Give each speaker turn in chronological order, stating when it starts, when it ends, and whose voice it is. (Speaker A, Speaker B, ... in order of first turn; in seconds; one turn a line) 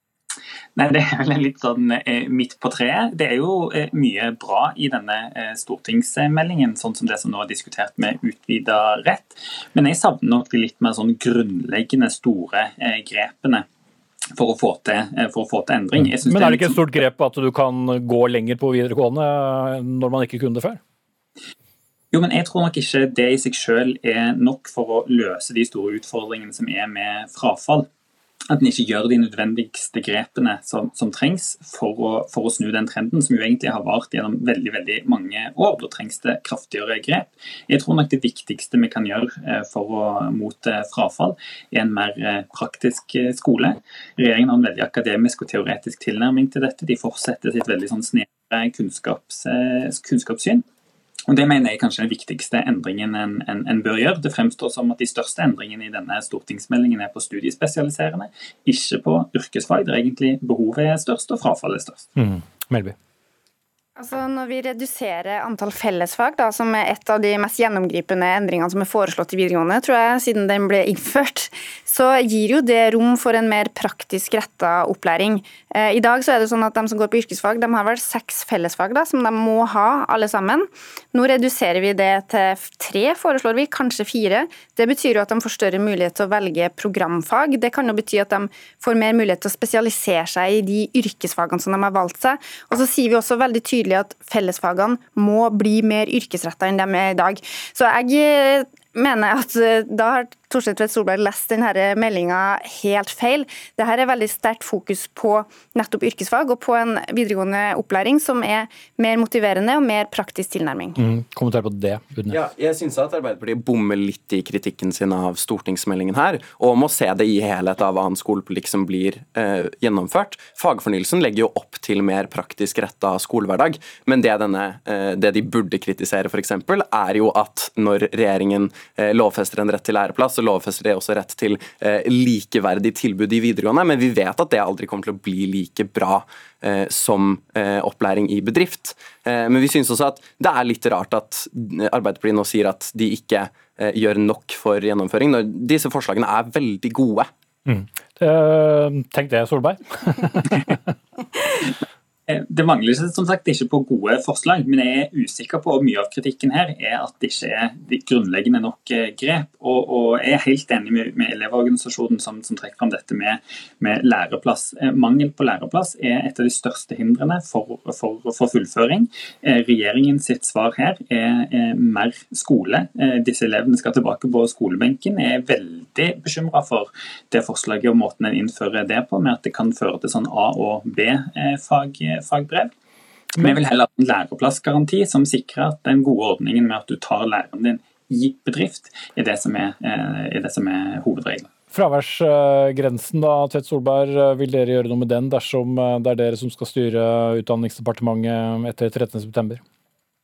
Speaker A: 0.8-13.7
Speaker A: 14.3-16.8
Speaker B: 16.1-20.8
Speaker A: 22.1-27.9
Speaker A: 28.5-50.6
Speaker A: 51.3-62.1
Speaker B: 62.2-63.0
Speaker C: 64.0-111.0
Speaker B: 111.0-112.4
Speaker D: 112.3-147.3
Speaker B: 147.7-150.8
Speaker A: 152.3-182.7
Speaker A: 183.4-191.5
Speaker B: 191.7-199.6